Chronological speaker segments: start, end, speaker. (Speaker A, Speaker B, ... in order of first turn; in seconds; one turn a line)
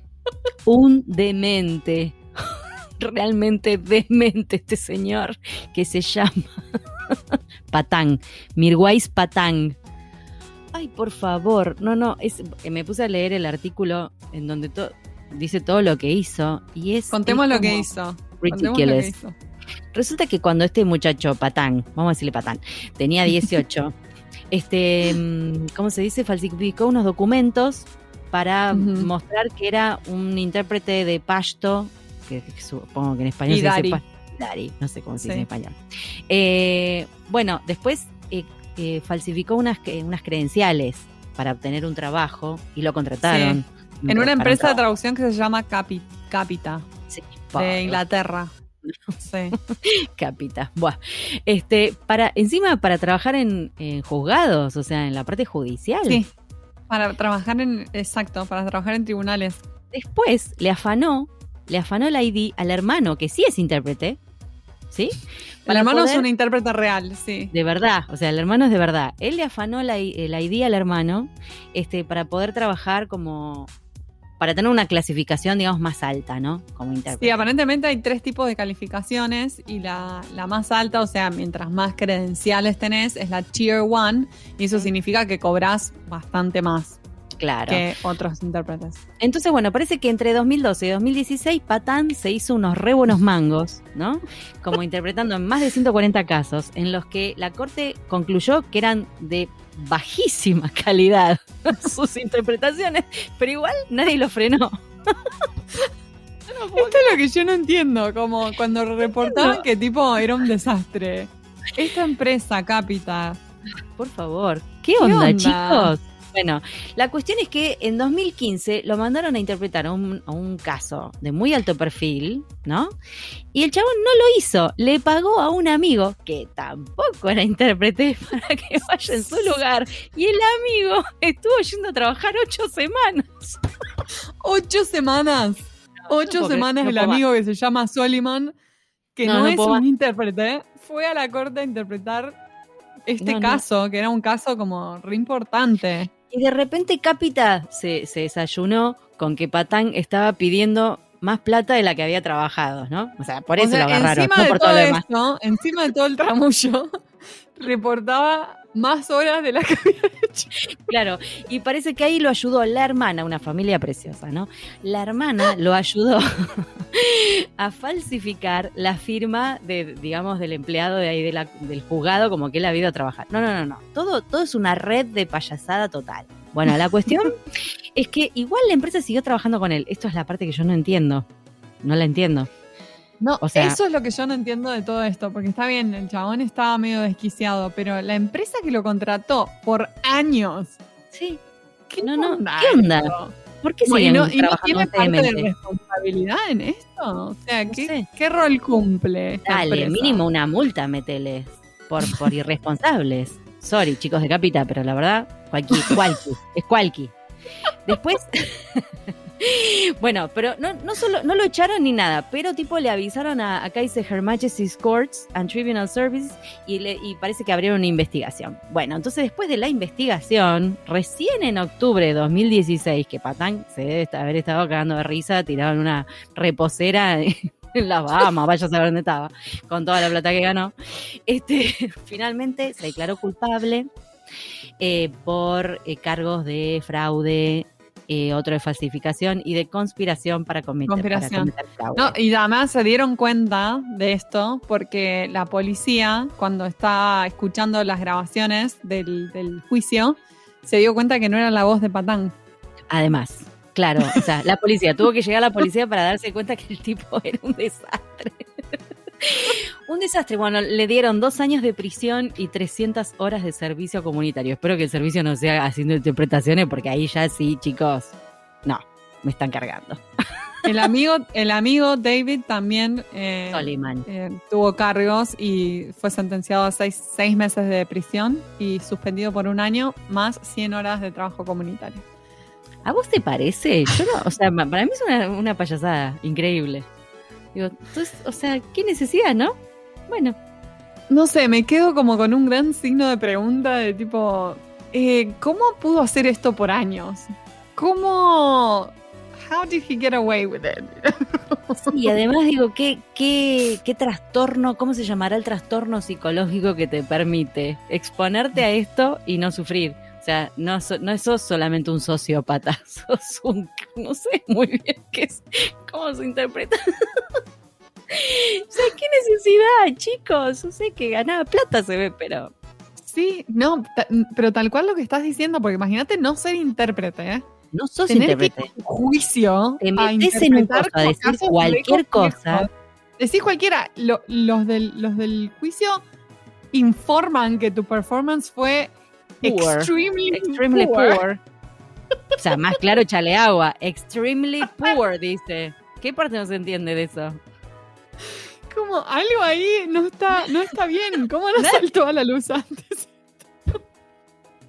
Speaker A: 0.7-2.2
Speaker A: 3.0-9.8
Speaker A: 10.7-17.9
Speaker B: 17.1-19.3
Speaker A: 18.4-19.1
Speaker A: 19.9-24.0
Speaker A: 24.5-35.8
Speaker B: 28.7-29.1
Speaker B: 33.5-34.0
Speaker B: 35.2-35.5
Speaker A: 36.3-44.8
Speaker B: 43.2-46.9
Speaker A: 47.1-48.0
Speaker B: 47.6-48.5
Speaker A: 48.9-56.2
Speaker B: 49.2-49.6
Speaker B: 56.9-59.6
Speaker A: 59.9-64.2
Speaker A: 64.9-66.3
Speaker B: 65.7-67.5
Speaker A: 67.5-73.7
Speaker A: 74.4-77.4
Speaker B: 77.2-87.0
Speaker A: 87.4-87.8
Speaker B: 87.7-89.0
Speaker A: 89.2-105.2
Speaker A: 106.5-107.2
Speaker B: 106.8-113.4
Speaker A: 109.0-109.7
Speaker A: 114.0-123.0
Speaker B: 115.0-115.9
Speaker A: 123.5-133.6
Speaker B: 134.4-138.6
Speaker A: 136.1-137.2
Speaker B: 139.2-142.4
Speaker A: 139.2-139.8
Speaker B: 143.1-146.1
Speaker A: 143.2-143.6
Speaker A: 146.3-155.0
Speaker B: 153.6-156.9
Speaker B: 157.6-160.5
Speaker A: 160.7-181.3
Speaker A: 181.8-182.5
Speaker B: 183.2-190.8
Speaker A: 183.4-183.8
Speaker A: 191.1-191.4
Speaker B: 191.9-200.2
Speaker A: 192.0-195.5
Speaker A: 197.7-198.1
Speaker A: 199.5-207.1
Speaker B: 205.8-206.1
Speaker A: 207.8-233.9
Speaker A: 234.8-242.2
Speaker B: 240.9-252.3
Speaker A: 252.9-268.1
Speaker A: 268.6-270.0
Speaker B: 270.6-282.1
Speaker A: 273.5-274.1
Speaker A: 282.9-286.9
Speaker A: 287.5-289.6
Speaker A: 290.1-290.4
Speaker B: 291.1-302.1
Speaker A: 301.8-317.2
Speaker A: 318.1-322.5
Speaker B: 323.1-327.4
Speaker A: 327.7-328.7
Speaker B: 328.1-336.0
Speaker A: 329.8-332.7
Speaker B: 336.7-338.9
Speaker B: 339.4-341.2
Speaker A: 339.4-341.4
Speaker B: 342.3-342.8
Speaker A: 342.4-347.4
Speaker B: 348.7-353.1
Speaker A: 351.6-351.8